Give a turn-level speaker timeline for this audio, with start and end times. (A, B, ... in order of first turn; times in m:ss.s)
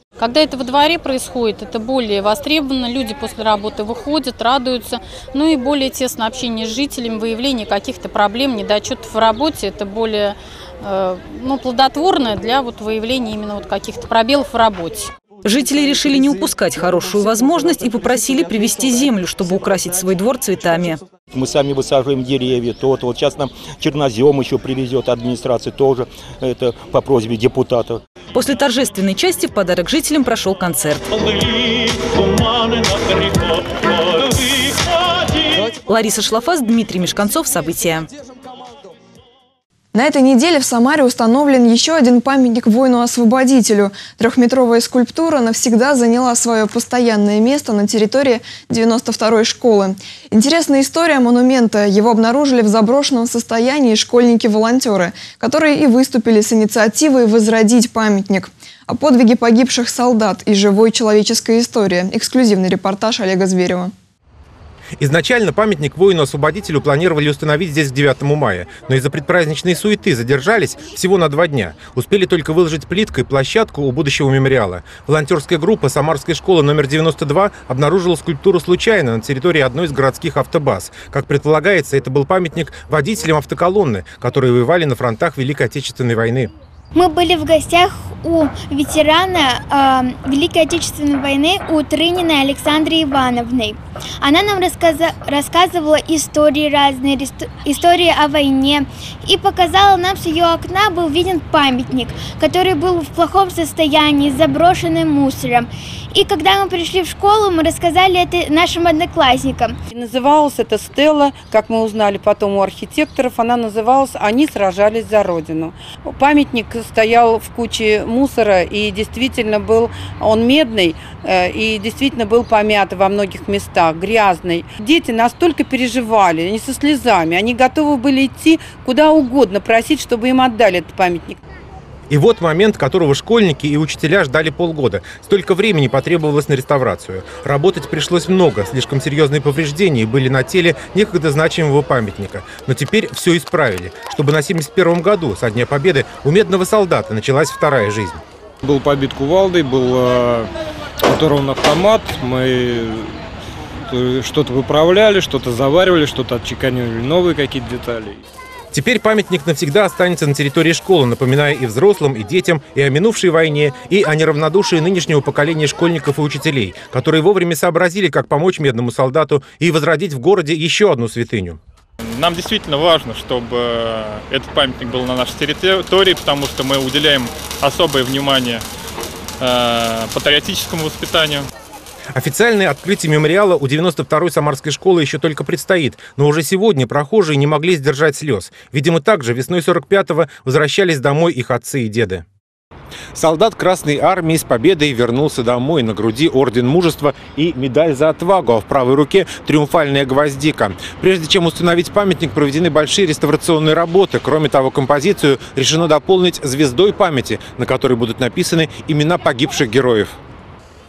0:00.2-0:15.1 A
0:15.4-0:21.0 B
0:21.3-0:28.0 C
0:28.3-0:31.0 B
0:35.9-0:38.1 B
0:39.9-1:03.9 D
1:05.0-1:26.5 E
1:27.0-1:49.8 F
1:49.9-2:11.4 G
2:12.1-2:28.2 E
2:28.6-2:30.5 H
2:31.1-2:33.1 H
2:33.9-2:38.2 H
2:38.7-2:51.6 E
2:52.1-2:58.6 I
2:59.4-3:01.4 I
3:02.2-3:12.2 E
3:13.2-3:30.1 E